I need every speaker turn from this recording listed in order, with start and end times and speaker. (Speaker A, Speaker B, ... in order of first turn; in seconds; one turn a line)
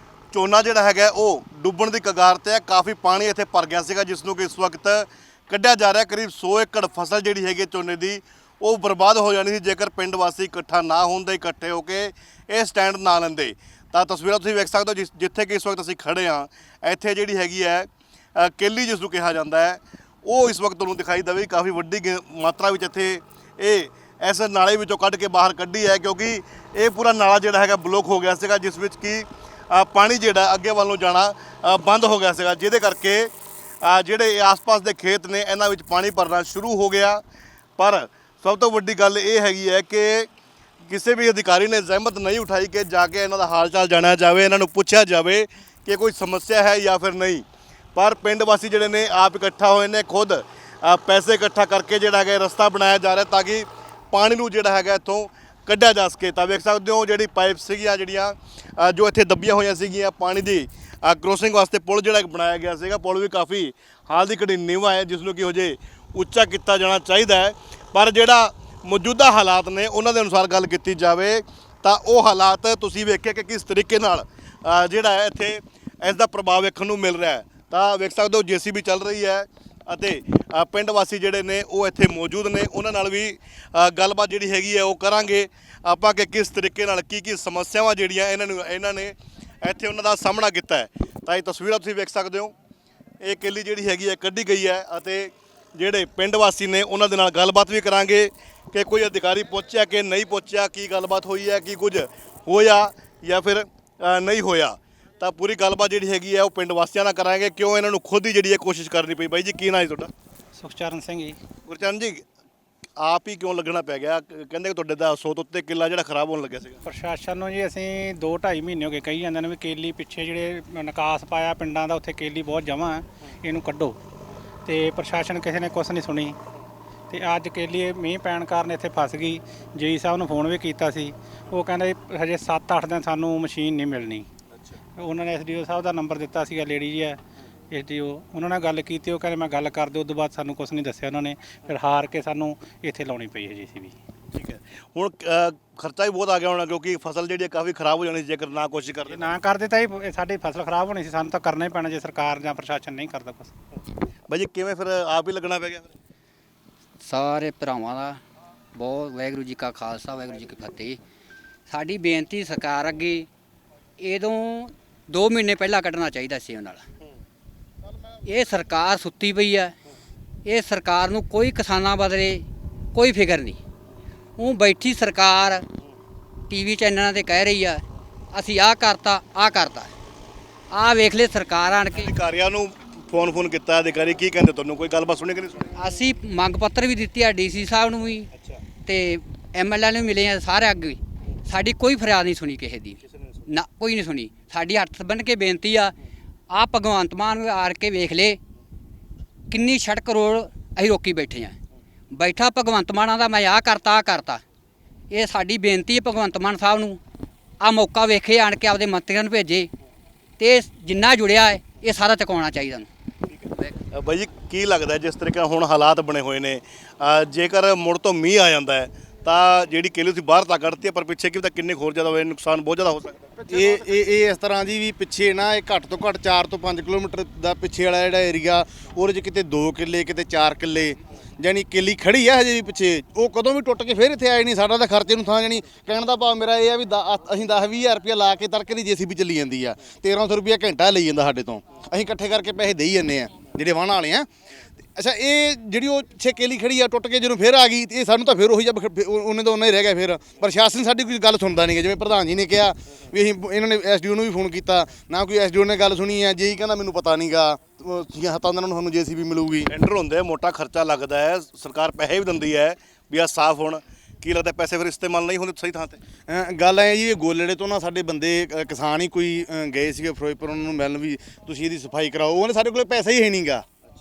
Speaker A: 0.3-33.3
Speaker A: 33.8-37.2
Speaker A: 37.8-40.3
Speaker A: 40.9-47.4
Speaker A: 48.0-92.5
Speaker A: 93.2-110.1
Speaker B: 110.6-111.4
Speaker A: 111.7-112.2
Speaker A: 113.0-116.8
Speaker B: 116.9-124.0
Speaker B: 124.7-126.3
Speaker B: 127.1-134.3
Speaker B: 135.0-137.2
Speaker B: 137.7-143.9
Speaker A: 144.3-149.4
Speaker B: 149.1-153.5
Speaker A: 154.3-155.9
Speaker C: 157.0-158.2
Speaker C: 158.7-161.0
Speaker C: 161.7-163.3
Speaker C: 164.0-166.8
Speaker C: 168.2-169.7
Speaker C: 170.4-173.6
Speaker C: 174.4-175.6
Speaker C: 176.5-177.8
Speaker C: 178.3-179.9
Speaker C: 180.7-182.1
Speaker A: 181.9-185.7
Speaker C: 185.8-188.3
Speaker C: 188.8-195.9
Speaker C: 196.5-198.4
Speaker C: 199.5-201.6
Speaker C: 202.1-204.4
Speaker C: 205.1-207.0
Speaker C: 207.6-209.7
Speaker C: 210.4-212.9
Speaker A: 213.9-223.3
Speaker D: 223.5-244.3
Speaker D: 244.9-259.7
Speaker A: 259.7-266.0
Speaker D: 266.3-273.6